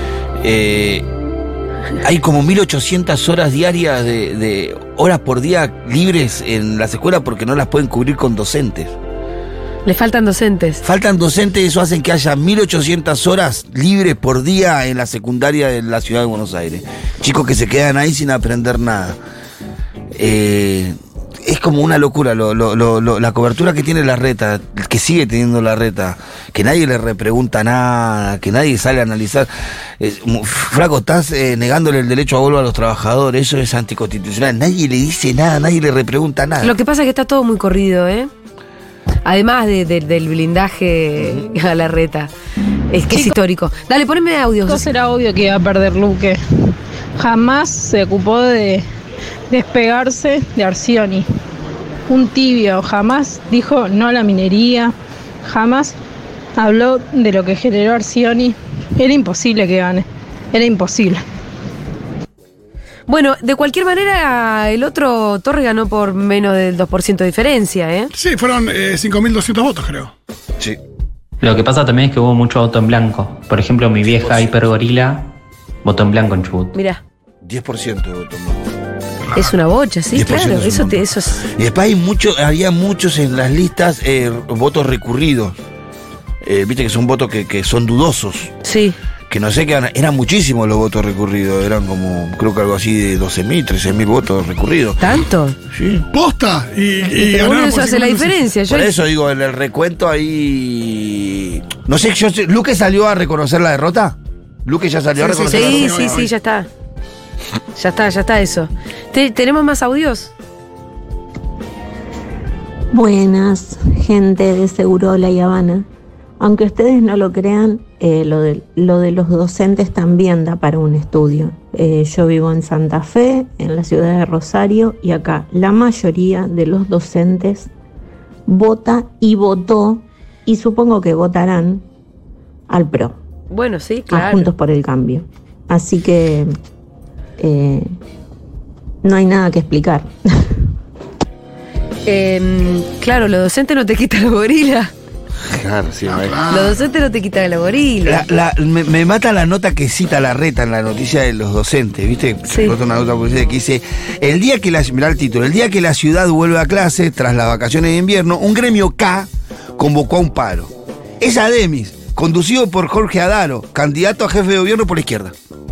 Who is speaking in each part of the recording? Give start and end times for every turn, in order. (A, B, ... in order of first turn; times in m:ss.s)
0:00.4-0:01.0 A
0:02.0-0:08.9 A
0:09.8-0:10.8 B
0:10.8-0:19.2 A
0:20.1-0:36.8 A
0:36.6-0:38.3 B
0:39.2-0:42.3 B
0:42.9-0:44.9 B
0:44.6-0:48.8 C
0:49.5-0:51.2 C
0:52.1-0:56.0 C
0:56.6-1:01.2 C
1:03.1-1:08.1 B
1:08.1-1:10.1 D
1:11.4-1:15.3 E
1:14.1-1:14.5 A
1:15.8-1:16.8 E
1:16.7-1:17.0 B
1:17.4-1:18.6 A
1:19.3-1:21.4 B
1:20.1-1:25.6 A
1:26.4-1:28.5 A
1:28.6-1:29.0 B
1:29.3-1:35.0 A
1:35.0-1:35.6 B
1:35.7-1:36.1 A
1:36.1-1:38.4 D
1:37.1-1:38.9 B
1:38.7-1:46.3 A
1:45.2-1:46.3 D
1:45.4-1:46.7 B
1:47.8-1:50.3 B
1:52.9-1:55.9 F
1:56.4-2:07.7 F
2:08.5-2:11.8 F
2:12.7-2:13.2 F
2:13.5-2:14.5 B
2:14.1-2:16.6 F
2:17.4-2:17.9 F
2:19.0-2:20.6 F
2:22.0-2:24.9 B
2:25.4-2:26.7 A
2:26.0-2:26.8 D
2:26.5-2:28.2 B
2:28.0-2:45.3 A
2:32.5-2:32.7 B